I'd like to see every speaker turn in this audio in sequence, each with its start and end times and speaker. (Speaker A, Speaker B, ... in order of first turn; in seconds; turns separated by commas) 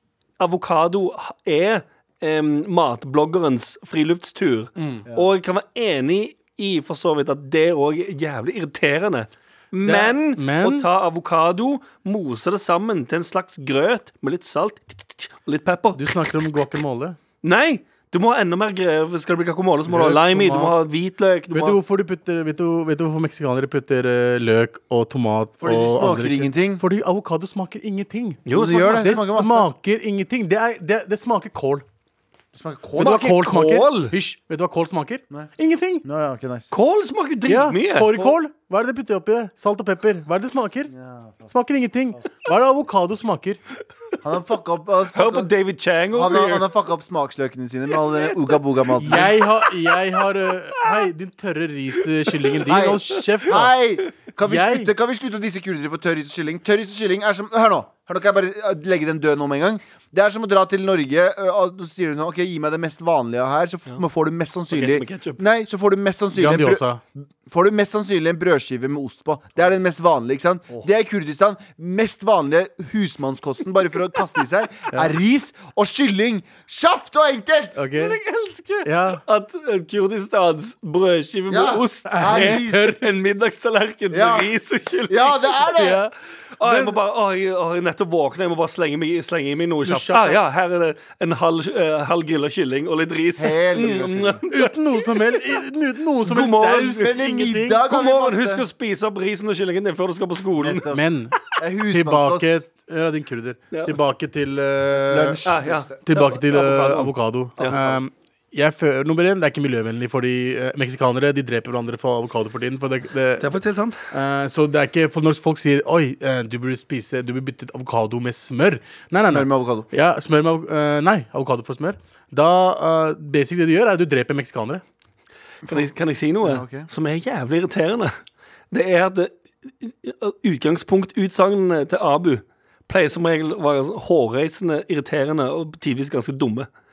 Speaker A: 0.4-16.6, Speaker B: 4.8-5.1, Speaker B: 9.8-10.9, Speaker B: 16.0-17.2, Speaker A: 17.4-21.8, Speaker B: 19.9-20.8, Speaker B: 21.5-31.8, Speaker C: 25.6-26.8, Speaker A: 28.5-29.1, Speaker C: 28.5-29.7, Speaker C: 32.5-33.3, Speaker A: 33.0-34.1, Speaker B: 33.0-36.0, Speaker C: 36.0-36.7, Speaker A: 36.7-38.3, Speaker B: 37.5-40.9, Speaker C: 40.9-41.5, Speaker B: 41.5-43.6, Speaker C: 44.2-45.5, Speaker A: 45.1-46.7, Speaker C: 46.1-49.4, Speaker B: 49.0-53.7, Speaker A: 49.1-49.7, Speaker A: 52.3-53.2, Speaker C: 52.7-66.8, Speaker B: 54.5-54.9, Speaker A: 64.7-65.4, Speaker B: 66.4-67.0, Speaker C: 67.5-77.8, Speaker B: 77.8-78.2, Speaker A: 77.9-85.7, Speaker B: 78.8-79.2, Speaker C: 81.5-83.0, Speaker B: 82.1-83.0, Speaker C: 84.1-84.5, Speaker C: 85.1-86.0, Speaker B: 85.7-86.1, Speaker A: 86.6-95.6, Speaker B: 86.6-87.0, Speaker B: 89.8-90.4, Speaker C: 93.4-94.4, Speaker B: 94.5-97.8, Speaker A: 96.2-97.1, Speaker C: 97.0-98.7, Speaker A: 97.9-100.9, Speaker C: 100.6-102.5, Speaker B: 100.9-105.5, Speaker C: 104.9-106.0, Speaker A: 105.5-107.8, Speaker B: 106.1-113.5, Speaker C: 107.7-108.0, Speaker A: 113.4-114.1, Speaker B: 114.1-124.8, Speaker C: 119.2-119.9, Speaker A: 125.7-128.1, Speaker C: 126.4-126.9, Speaker A: 128.7-136.7